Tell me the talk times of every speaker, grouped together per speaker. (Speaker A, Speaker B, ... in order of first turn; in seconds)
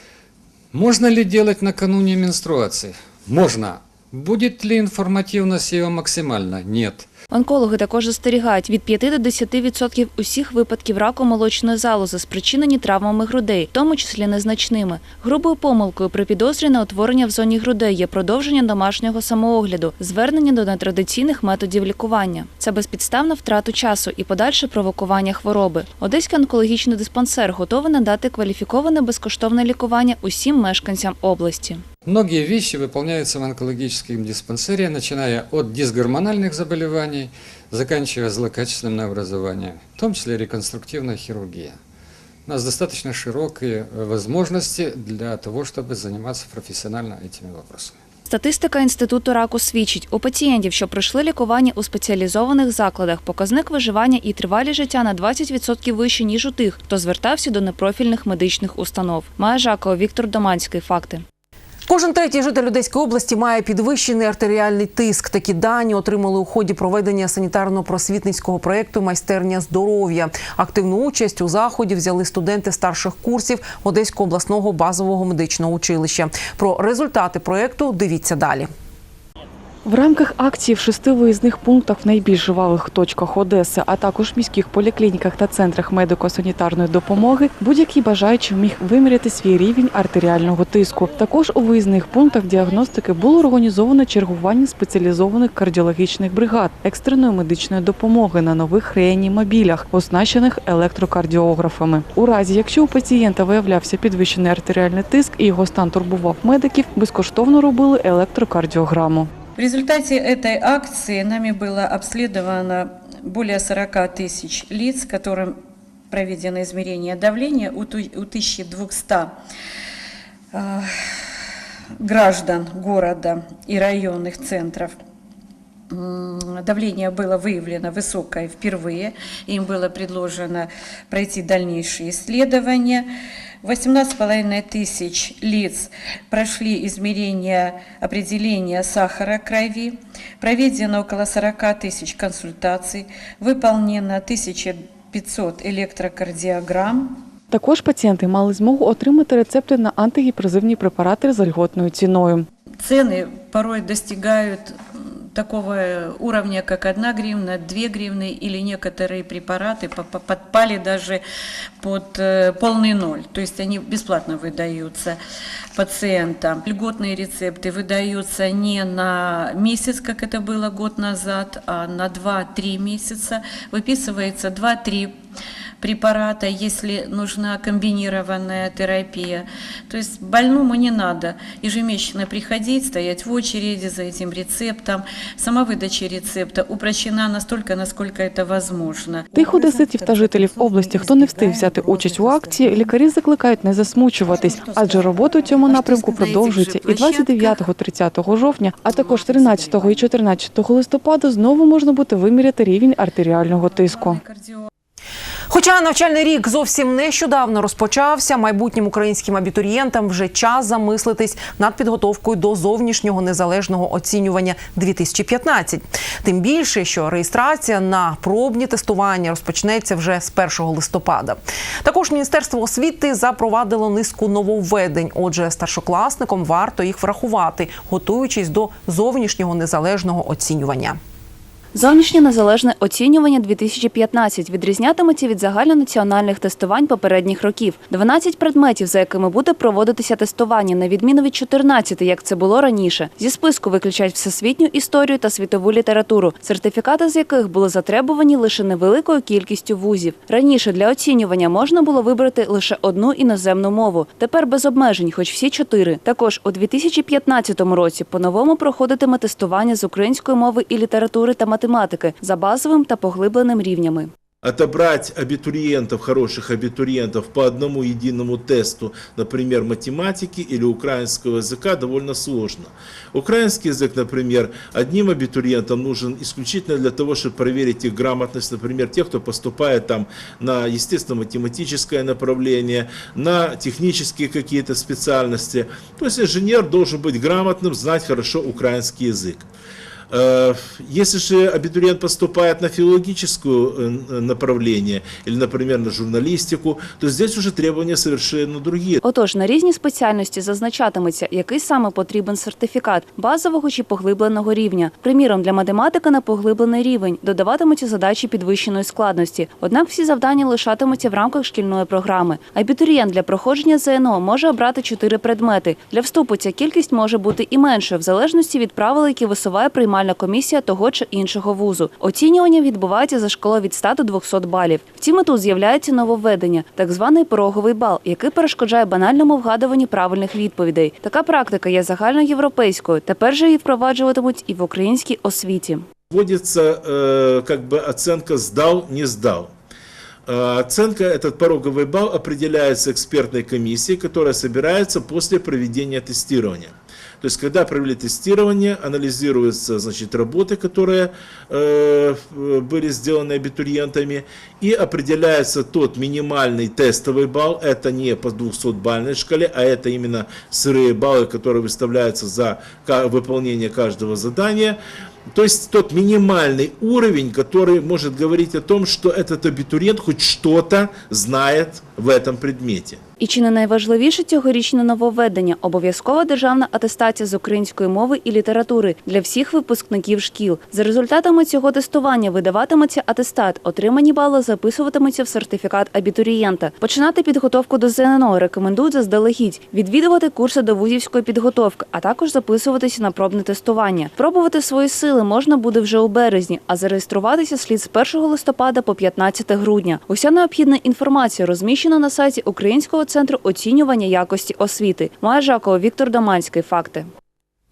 Speaker A: 0.7-7.0, 32.0-41.8, 42.5-47.9
Speaker B: 7.3-31.8, 48.3-61.2, 231.7-264.1, 299.0-335.8, 373.2-407.1
Speaker C: 61.9-78.7, 205.5-231.0
Speaker D: 79.8-109.3, 147.5-152.4, 189.3-204.2
Speaker E: 109.5-115.5, 116.1-119.3, 120.5-120.9, 122.0-125.0, 125.9-133.1, 133.6-147.2, 152.8-154.8, 155.3-161.2, 161.8-165.2, 165.7-175.1, 175.8-189.4, 194.4-197.0, 203.9-204.7
Speaker F: 264.4-289.4, 290.1-299.0, 336.1-339.5, 340.3-364.8, 365.3-373.0